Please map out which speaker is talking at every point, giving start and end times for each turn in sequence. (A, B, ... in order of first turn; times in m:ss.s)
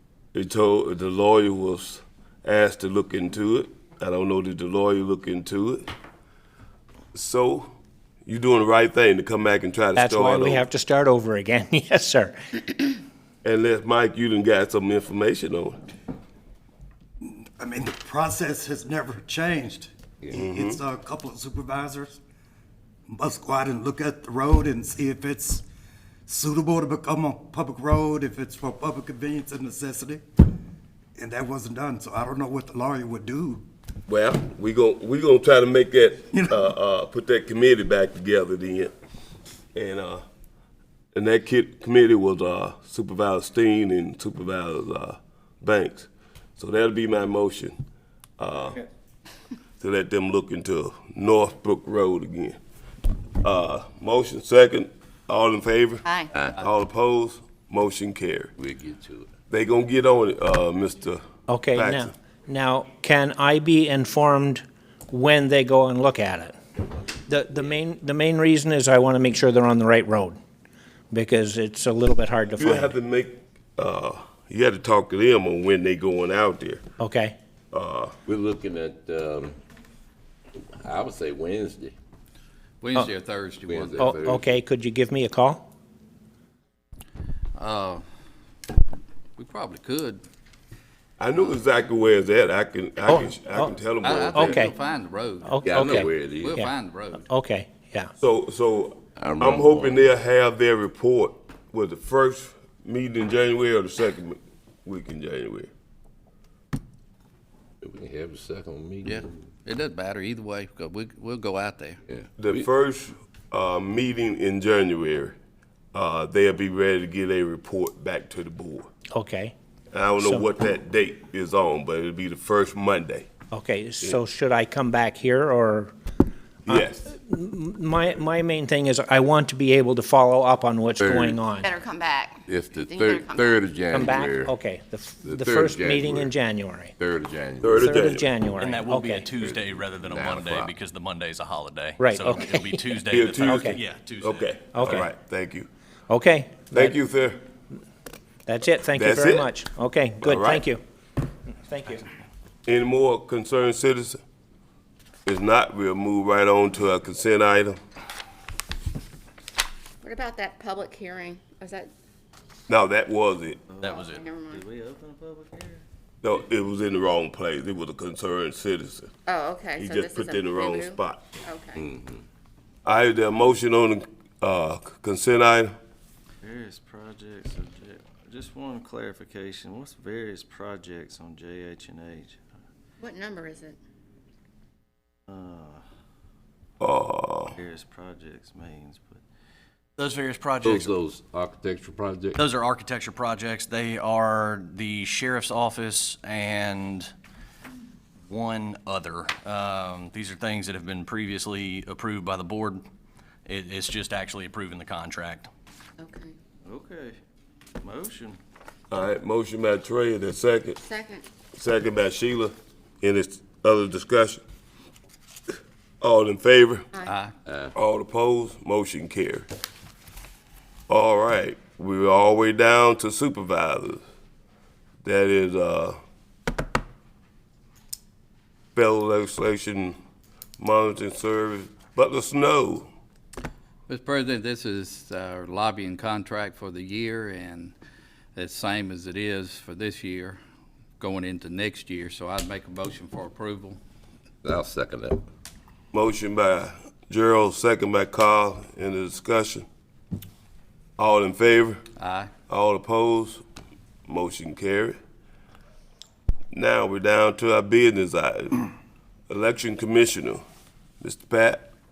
0:00.3-0:05.8 A
0:07.1-0:07.7 A
0:08.3-0:10.6 A
0:10.0-0:13.0 B
0:13.4-0:15.8 A
0:17.2-0:22.2 C
0:20.3-0:20.8 A
0:23.1-0:25.6 C
0:26.3-0:30.2 C
0:31.2-0:33.6 C
0:34.1-0:38.9 A
0:36.3-0:36.7 C
0:39.8-0:40.2 A
0:41.1-0:47.8 A
0:48.4-0:48.8 A
0:49.8-0:52.6 A
0:53.4-0:58.5 A
0:58.6-0:59.3 D
0:59.5-1:01.2 A
1:01.5-1:06.6 B
1:01.7-1:02.1 A
1:07.3-1:10.4 B
1:11.1-1:13.0 B
1:12.6-1:16.8 A
1:17.0-1:17.3 B
1:17.7-1:18.1 A
1:18.2-1:19.6 D
1:20.8-1:21.9 D
1:22.8-1:24.2 E
1:23.7-1:24.6 D
1:24.0-1:25.6 B
1:27.6-1:28.0 E
1:29.4-1:30.2 E
1:31.2-1:34.6 A
1:33.0-1:33.7 B
1:34.0-1:37.3 E
1:34.3-1:34.7 B
1:35.4-1:36.7 B
1:35.6-1:36.6 D
1:37.2-1:38.1 B
1:38.2-1:45.7 A
1:39.2-1:40.0 D
1:47.8-1:49.3 D
1:49.0-1:52.0 E
1:52.1-1:52.7 D
1:52.4-1:55.4 A
1:55.9-1:58.9 A
1:59.1-1:59.5 B
1:59.9-2:03.3 A
2:00.2-2:00.5 B
2:03.5-2:05.9 B
2:06.7-2:07.1 A
2:06.7-2:11.7 B
2:11.0-2:11.4 D
2:11.6-2:13.6 F
2:12.5-2:14.5 D
2:13.9-2:16.9 B
2:15.2-2:16.4 D
2:17.0-2:18.0 D
2:17.6-2:18.3 A
2:17.7-2:19.3 B
2:18.6-2:24.5 G
2:19.3-2:20.7 D
2:22.0-2:23.8 B
2:23.1-2:25.7 A
2:24.7-2:25.1 B
2:26.1-2:27.0 B
2:26.7-2:27.4 A
2:28.5-2:30.8 B
2:28.9-2:29.5 A
2:30.2-2:30.7 A
2:31.6-2:32.0 B
2:32.7-2:34.2 A
2:35.2-2:37.8 A
2:40.0-2:41.9 F
2:42.7-2:43.6 A
2:43.7-2:45.8 H
2:43.8-2:44.2 G
2:44.0-2:44.6 F
2:46.2-2:49.1 A
2:49.3-2:51.8 F
2:49.8-2:51.2 A
2:51.7-2:52.2 D
2:52.8-2:55.7 A
2:56.4-3:02.4 H
3:03.0-3:03.8 F
3:05.3-3:05.8 H
3:06.8-3:07.6 A
3:07.5-3:09.2 H
3:10.0-3:10.9 G
3:10.6-3:12.4 D
3:12.4-3:17.1 G
3:18.3-3:22.8 G
3:23.4-3:25.5 G
3:26.0-3:26.3 F
3:26.7-3:27.2 H
3:27.8-3:28.4 H
3:28.9-3:30.8 A
3:30.8-3:31.2 F
3:31.6-3:34.4 A
3:36.0-3:36.9 A
3:37.0-3:37.3 E
3:37.5-3:37.7 D
3:37.7-3:39.5 A
3:40.9-3:44.0 A
3:45.0-3:46.0 A
3:48.7-3:50.0 A
3:50.6-3:52.9 A
3:53.9-3:57.8 E
3:58.3-4:00.4 E
4:01.0-4:03.8 E
4:04.4-4:05.2 D
4:05.9-4:09.7 A
4:11.0-4:11.8 A
4:12.0-4:12.3 E
4:12.5-4:13.4 A
4:14.1-4:15.0 A
4:16.5-4:18.7 A
4:19.3-4:20.4 A
4:21.0-4:21.6 A